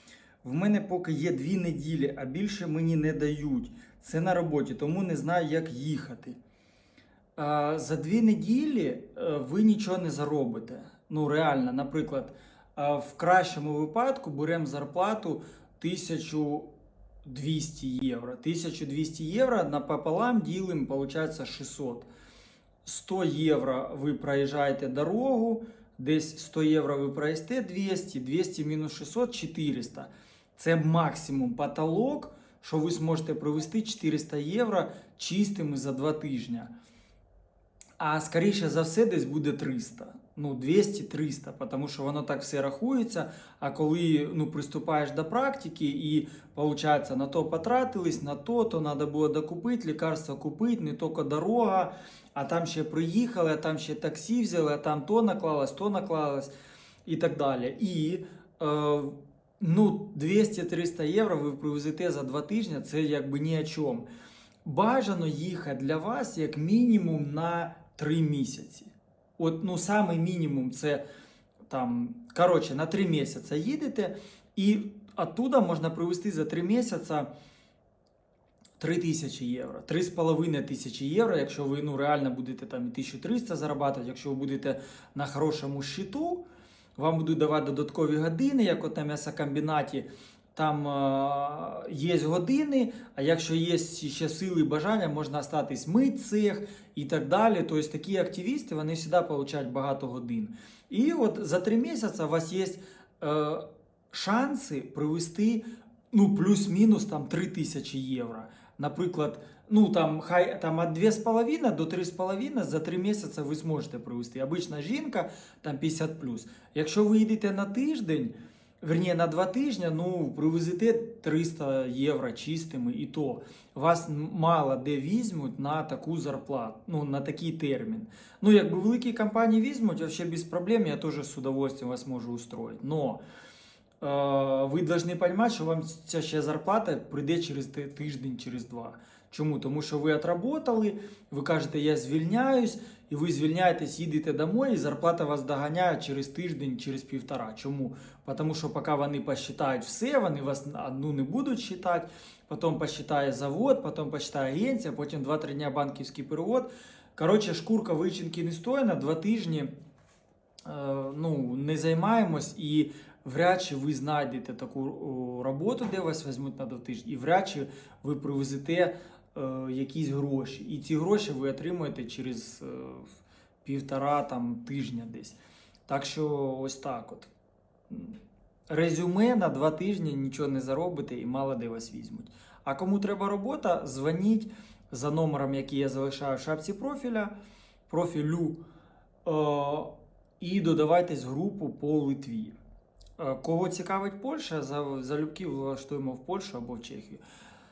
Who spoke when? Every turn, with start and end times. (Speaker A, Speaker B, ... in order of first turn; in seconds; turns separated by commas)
Speaker A: 0.4-6.4, Speaker A: 7.3-16.7, Speaker A: 17.2-22.1, Speaker A: 22.8-36.7, Speaker A: 38.0-56.5, Speaker A: 57.0-64.1, Speaker A: 64.6-71.0, Speaker A: 71.7-77.3, Speaker A: 78.8-86.4, Speaker A: 87.0-133.2, Speaker A: 134.0-159.7, Speaker A: 160.6-177.3, Speaker A: 177.9-178.2, Speaker A: 178.7-187.3, Speaker A: 187.9-188.6, Speaker A: 189.2-192.6, Speaker A: 193.2-197.2